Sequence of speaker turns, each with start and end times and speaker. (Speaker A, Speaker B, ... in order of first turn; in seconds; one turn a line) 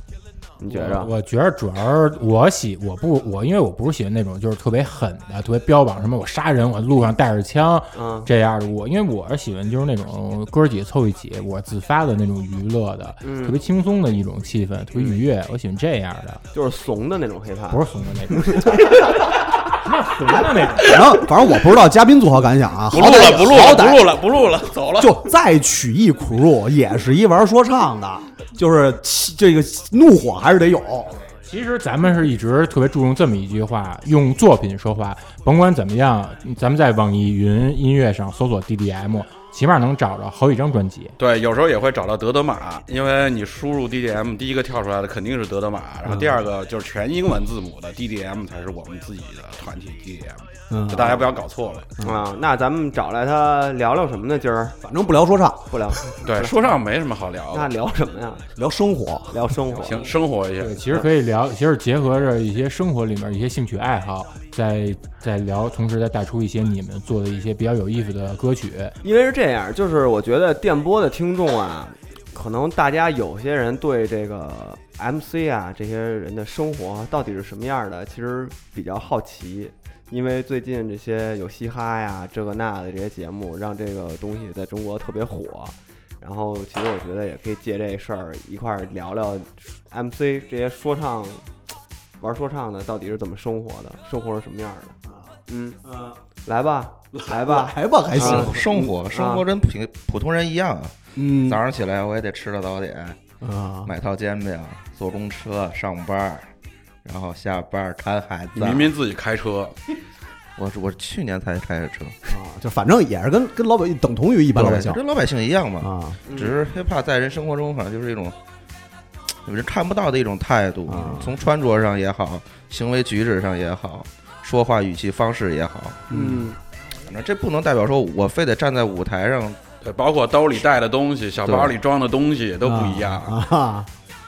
Speaker A: 0.6-1.1
Speaker B: 0.7-16.4
Speaker A: 7.9-8.3
Speaker A: 13.2-13.6
Speaker A: 14.9-15.2
Speaker A: 16.5-19.0
Speaker B: 17.7-18.8
Speaker B: 19.7-21.0
Speaker C: 20.8-24.1
Speaker D: 20.8-21.2
Speaker D: 22.9-25.2
Speaker C: 25.0-31.1
Speaker B: 31.4-41.2
Speaker D: 41.2-51.9
Speaker C: 46.0-46.4
Speaker C: 50.7-51.2
Speaker A: 50.9-51.2
Speaker A: 52.0-54.8
Speaker C: 54.8-56.2
Speaker A: 55.7-56.7
Speaker D: 56.2-57.7
Speaker A: 57.5-58.5
Speaker C: 58.6-59.5
Speaker A: 59.3-60.1
Speaker D: 59.8-60.7
Speaker B: 60.6-68.9
Speaker A: 69.0-91.5
Speaker A: 92.2-95.0
Speaker A: 95.5-95.8
Speaker C: 95.8-96.2
Speaker A: 96.5-99.5
Speaker C: 97.1-99.0
Speaker E: 98.2-103.2
Speaker C: 101.2-101.6
Speaker C: 103.4-103.9
Speaker E: 103.9-106.5
Speaker E: 107.0-108.9
Speaker D: 108.5-109.8
Speaker E: 110.6-112.2
Speaker C: 112.3-115.0
Speaker E: 114.5-118.4
Speaker C: 115.8-116.2
Speaker A: 116.3-116.6
Speaker E: 119.5-126.0
Speaker C: 120.9-121.3
Speaker C: 126.1-126.5
Speaker A: 126.1-126.6
Speaker E: 127.1-129.6
Speaker D: 129.8-133.3
Speaker E: 131.4-131.8
Speaker C: 132.6-133.9